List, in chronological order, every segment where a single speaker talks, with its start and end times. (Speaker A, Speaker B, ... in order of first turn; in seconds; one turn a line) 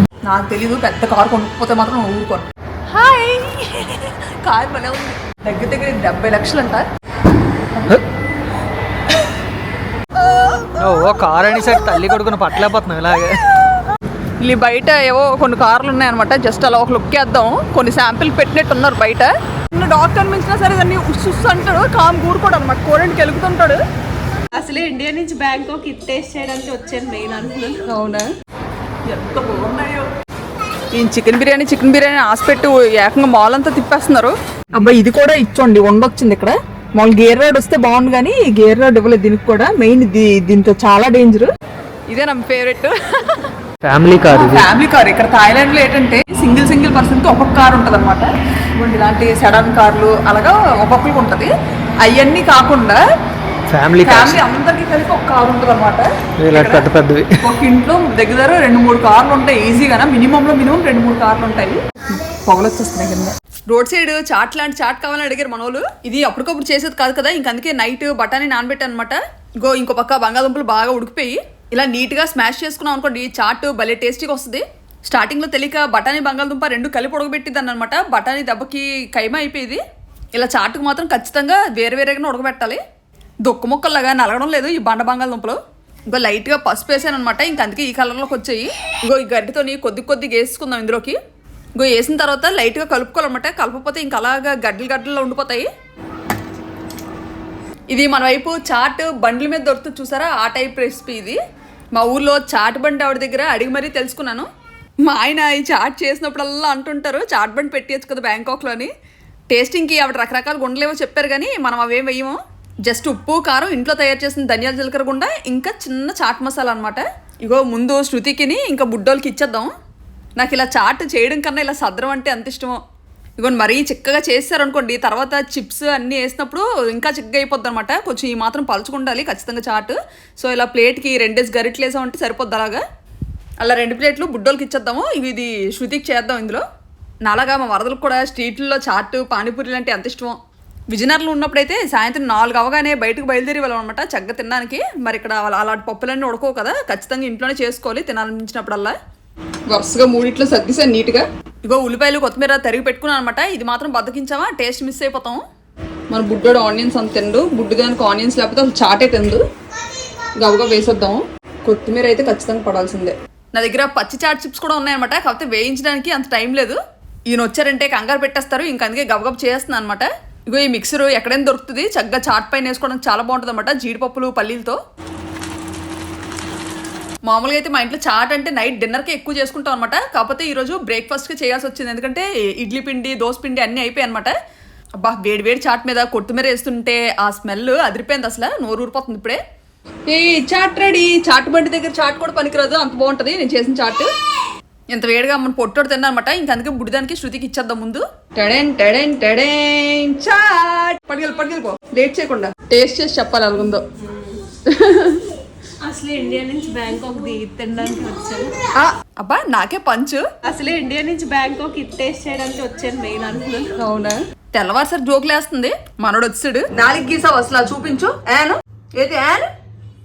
Speaker A: 0.2-6.9
Speaker A: 10.2-11.2
Speaker B: 10.8-13.4
Speaker A: 14.4-23.8
Speaker C: 24.5-27.8
Speaker A: 27.8-28.2
Speaker A: 29.1-30.1
Speaker A: 30.9-41.5
Speaker A: 42.1-43.5
Speaker B: 43.8-44.7
Speaker A: 44.3-51.5
Speaker A: 52.0-53.0
Speaker B: 53.7-54.4
Speaker A: 54.0-56.9
Speaker B: 56.4-57.4
Speaker A: 57.4-79.8
Speaker A: 80.3-82.8
Speaker A: 83.4-91.2
Speaker A: 91.8-95.7
Speaker A: 97.9-101.4
Speaker A: 101.9-104.5
Speaker A: 105.0-108.9
Speaker A: 109.5-119.7
Speaker A: 120.4-122.8
Speaker A: 123.4-132.8
Speaker A: 133.6-136.6
Speaker A: 137.2-140.4
Speaker A: 140.9-148.9
Speaker A: 149.7-155.4
Speaker A: 156.1-159.4
Speaker A: 160.4-174.8
Speaker A: 177.2-184.3
Speaker A: 185.0-189.4
Speaker A: 190.1-194.1
Speaker A: 194.9-203.8
Speaker A: 204.7-205.2
Speaker C: 205.8-208.5
Speaker A: 208.8-210.3
Speaker C: 210.4-213.7
Speaker A: 213.8-219.5